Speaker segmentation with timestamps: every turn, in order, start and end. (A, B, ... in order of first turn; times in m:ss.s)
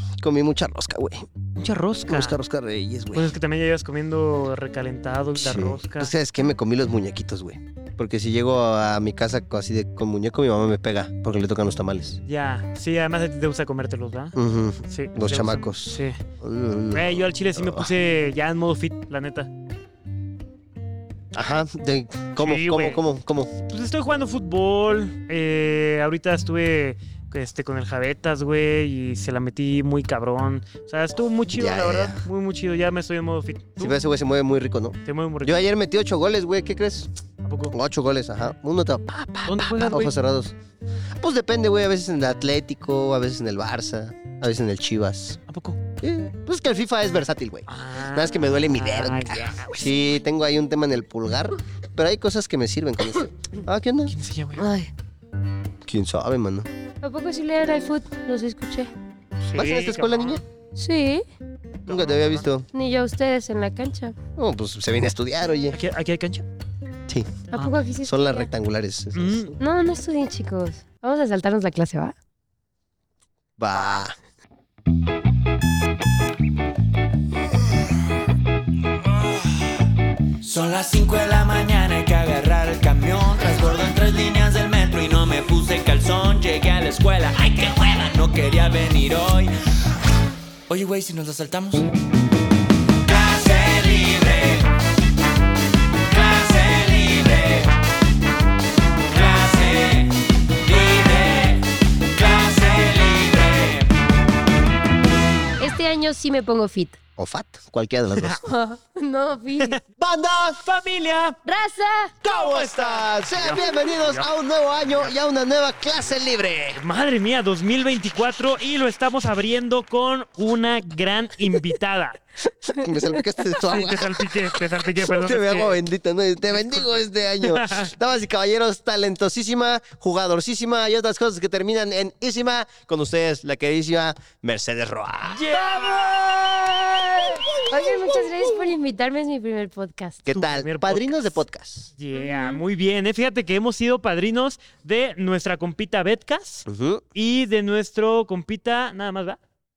0:00.2-0:01.2 A
0:01.6-0:02.4 B
0:02.1-0:03.3 A
0:03.1-0:06.1 B
0:05.4-0:12.2 A
0:12.2-0:14.3 B
0:14.3-0:17.9 A
0:14.9-0:16.2 B
0:16.9-0:19.5 B
0:21.3-0:23.5 A
0:22.4-0:23.0 B
0:23.7-0:34.0 B
0:31.6-0:32.2 A
0:33.8-0:37.1 A
0:35.0-0:35.7 B
0:37.4-0:37.7 B
0:37.7-0:40.5 A
0:39.4-0:40.1 B
0:41.2-0:45.4 A
0:45.5-0:45.8 B
0:46.0-0:54.1 A
0:47.7-0:49.8 B
0:54.1-0:54.6 B
0:54.6-0:54.9 C
0:55.8-0:56.7 A
0:57.0-0:58.9 C
0:59.5-1:00.4 B
0:59.5-1:00.4 A
1:00.8-1:01.2 C
1:01.8-1:02.7 A
1:01.8-1:02.5 B
1:02.7-1:04.2 C
1:04.4-1:05.8 A
1:05.7-1:06.4 B
1:07.1-1:07.4 A
1:07.5-1:08.5 C
1:08.0-1:09.6 A
1:09.1-1:09.5 B
1:09.6-1:12.2 C
1:13.6-1:14.2 A
1:19.2-1:19.8 D
1:20.4-1:29.5 D
1:30.7-1:31.9 D
1:33.0-1:34.7 D
1:36.1-1:37.8 D
1:39.1-1:43.9 D
1:45.6-1:47.0 C
1:47.2-1:48.4 A
1:48.4-1:49.8 C
1:50.0-1:50.6 A
1:50.6-1:51.4 B
1:51.4-1:52.1 C
1:52.2-1:56.8 A
1:52.2-1:54.3 B
1:56.8-2:02.2 B
2:02.6-2:15.5 A
2:02.8-2:03.3 C
2:03.6-2:05.8 B
2:07.4-2:07.9 B
2:15.3-2:16.1 B
2:15.5-2:16.3 C
2:17.2-2:18.2 A
2:17.6-2:20.2 C
2:20.2-2:21.9 A
2:20.3-2:21.4 B
2:22.0-2:29.4 B
2:22.1-2:22.6 C
2:26.6-2:27.0 A